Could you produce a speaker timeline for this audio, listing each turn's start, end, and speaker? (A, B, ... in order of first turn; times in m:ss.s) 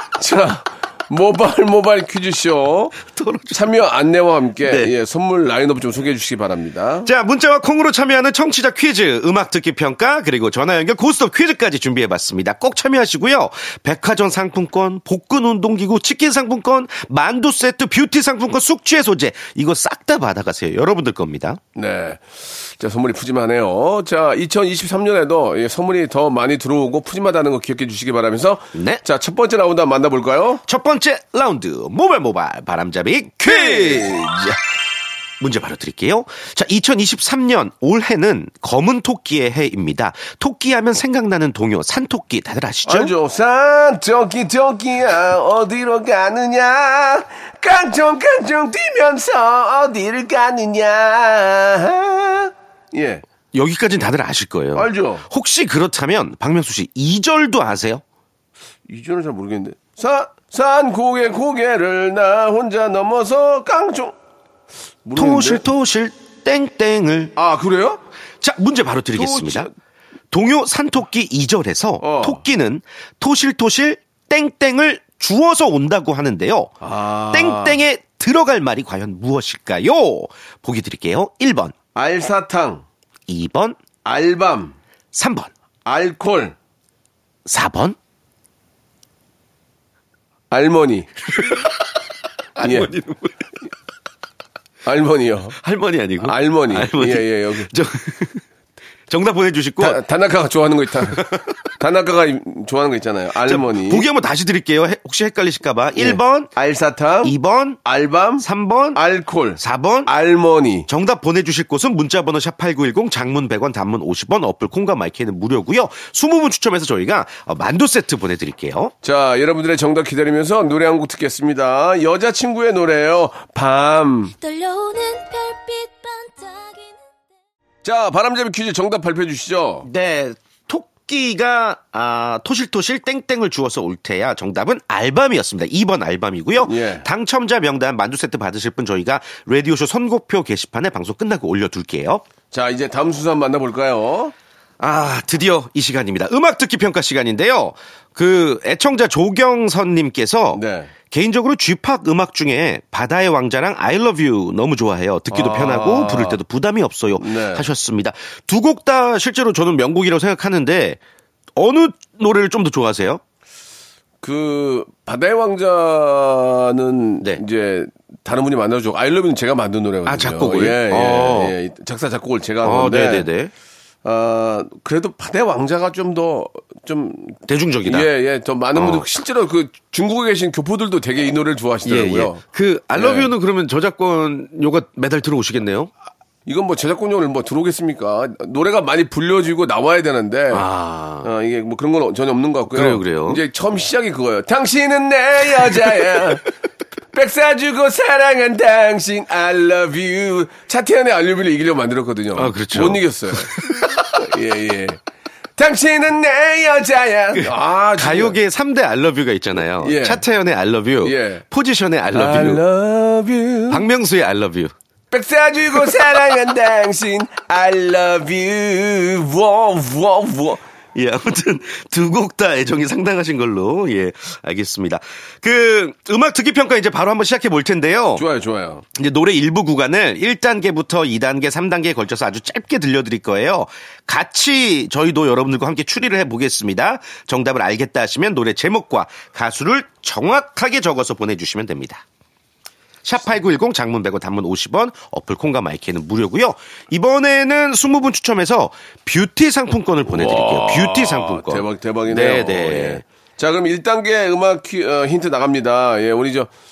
0:00.2-0:03.0 A
0:03.1-0:03.6 B
0:03.5-0:07.1 A
0:04.6-0:04.9 B
0:07.0-0:21.6 B
0:21.8-0:30.6 A
0:28.8-0:29.0 B
0:30.7-0:34.4 B
0:33.4-0:34.4 A
0:35.4-0:43.1 B
0:42.9-0:53.2 A
0:53.5-0:58.0 B
0:54.8-0:55.3 A
0:58.9-1:04.2 A
1:05.0-1:05.6 A
1:05.2-1:07.3 B
1:07.4-1:08.0 A
1:08.4-1:09.7 B
1:09.1-1:09.7 A
1:10.3-1:16.7 B
1:12.0-1:12.4 A
1:16.8-1:17.8 A
1:17.3-1:21.8 B
1:22.0-1:22.8 A
1:23.3-1:23.8 B
1:24.0-1:24.8 A
1:25.1-1:25.5 B
1:25.8-1:26.6 A
1:27.5-1:28.0 B
1:30.5-1:31.6 A
1:31.4-1:31.7 B
1:32.6-1:33.5 B
1:32.6-1:32.9 A
1:34.8-1:35.6 A
1:35.6-1:38.4 B
1:36.2-1:37.7 A
1:39.1-1:40.0 B
1:39.8-1:44.1 A
1:43.5-1:46.5 B
1:46.0-1:50.9 A
1:47.2-1:47.8 B
1:48.4-1:49.0 B
1:49.6-1:50.1 B
1:50.9-1:58.9 B
1:59.0-2:04.3 A
2:04.4-2:07.1 C
2:07.8-2:09.9 A
2:09.8-2:22.2 B
2:16.6-2:17.1 A
2:22.5-2:24.3 A
2:24.8-2:41.0 B
2:30.5-2:30.9 A
2:35.3-2:36.4 A
2:37.2-2:37.7 A
2:41.6-2:43.2 B
2:44.2-2:53.3 A
2:50.1-2:51.6 B
2:52.6-2:53.5 B
2:54.0-3:02.4 A
2:57.5-2:58.1 B
2:58.8-2:59.0 B
3:01.8-3:05.9 B
3:02.9-3:03.3 A
3:06.5-3:10.7 A
3:10.5-3:11.3 B
3:11.2-3:16.4 A
3:12.7-3:13.4 B
3:17.1-3:25.0 A
3:22.4-3:23.7 B
3:25.6-3:28.4 A
3:27.4-3:32.6 B
3:29.8-3:30.2 A
3:31.0-3:31.4 A
3:32.1-3:33.8 A
3:33.7-3:34.7 B
3:35.1-3:40.6 A
3:41.0-3:48.2 B
3:48.2-3:48.8 A
3:49.0-4:02.0 B
4:03.0-4:13.0 B
4:10.1-4:16.5 A